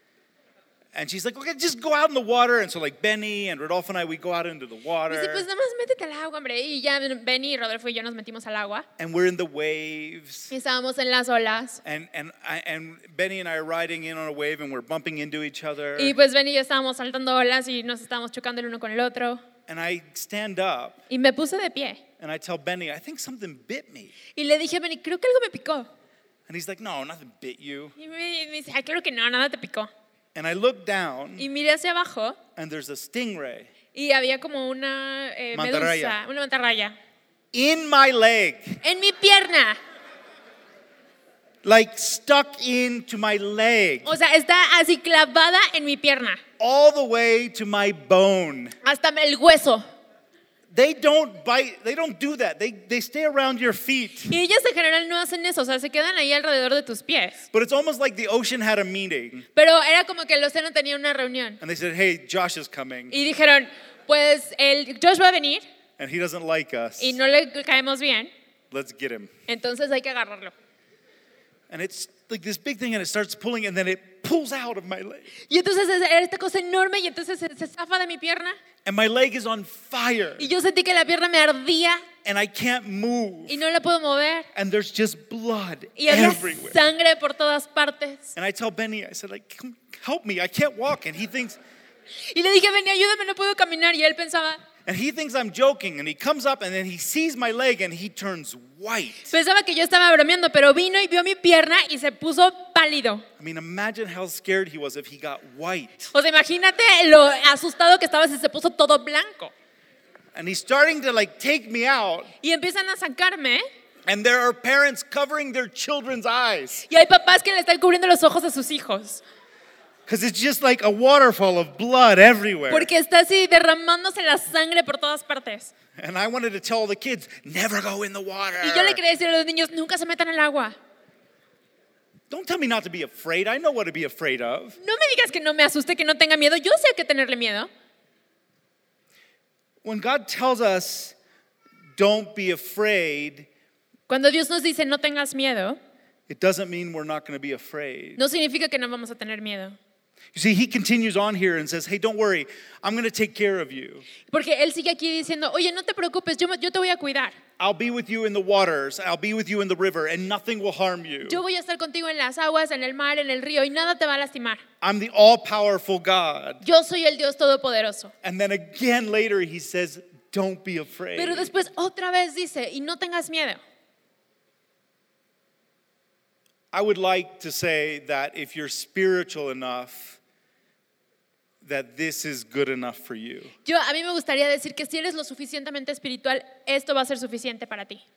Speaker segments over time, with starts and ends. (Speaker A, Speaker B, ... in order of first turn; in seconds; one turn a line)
Speaker A: 0.9-5.5
Speaker B: 5.1-8.9
Speaker A: 9.0-10.5
Speaker B: 10.5-11.8
Speaker A: 11.8-16.1
Speaker B: 16.0-19.4
Speaker A: 19.7-21.0
Speaker B: 21.1-22.0
Speaker A: 22.2-24.1
Speaker B: 24.4-25.9
Speaker A: 26.5-27.9
Speaker B: 28.0-29.9
Speaker A: 30.4-31.5
Speaker B: 31.4-32.4
Speaker A: 32.6-33.7
Speaker B: 33.9-37.0
Speaker A: 35.5-36.2
Speaker A: 37.5-38.8
Speaker B: 38.8-39.8
Speaker A: 41.6-44.2
Speaker B: 44.0-46.4
Speaker A: 46.6-48.8
Speaker B: 48.8-49.8
Speaker A: 50.7-54.4
Speaker B: 54.3-57.4
Speaker A: 57.5-59.5
Speaker B: 59.5-61.6
Speaker A: 61.6-63.2
Speaker B: 63.1-65.7
Speaker A: 66.0-67.2
Speaker B: 67.0-68.3
Speaker A: 68.7-69.3
Speaker B: 69.5-70.5
Speaker A: 71.7-75.3
Speaker B: 75.5-78.6
Speaker A: 78.8-80.5
Speaker B: 80.4-82.1
Speaker A: 82.2-83.7
Speaker B: 83.5-84.5
Speaker A: 84.5-86.8
Speaker B: 86.0-88.3
Speaker A: 88.4-91.6
Speaker B: 92.1-94.6
Speaker A: 94.9-99.3
Speaker B: 99.3-103.2
Speaker A: 103.4-106.0
Speaker B: 106.1-109.5
Speaker A: 110.3-112.3
Speaker B: 112.4-113.7
Speaker A: 114.1-116.9
Speaker B: 116.9-119.2
Speaker A: 120.1-122.9
Speaker B: 122.7-125.7
Speaker A: 126.0-129.0
Speaker B: 128.6-130.8
Speaker A: 132.3-134.8
Speaker B: 134.8-137.7
Speaker A: 139.8-141.2
Speaker A: 141.9-143.5
Speaker B: 144.1-145.8
Speaker A: 146.3-148.2
Speaker B: 148.2-149.8
Speaker A: 150.3-154.1
Speaker B: 154.3-157.4
Speaker A: 157.6-161.4
Speaker B: 161.3-164.6
Speaker A: 164.8-166.6
Speaker B: 166.6-168.1
Speaker A: 168.2-171.5
Speaker B: 171.1-173.6
Speaker A: 176.7-180.2
Speaker A: 181.6-183.6
Speaker B: 183.7-188.0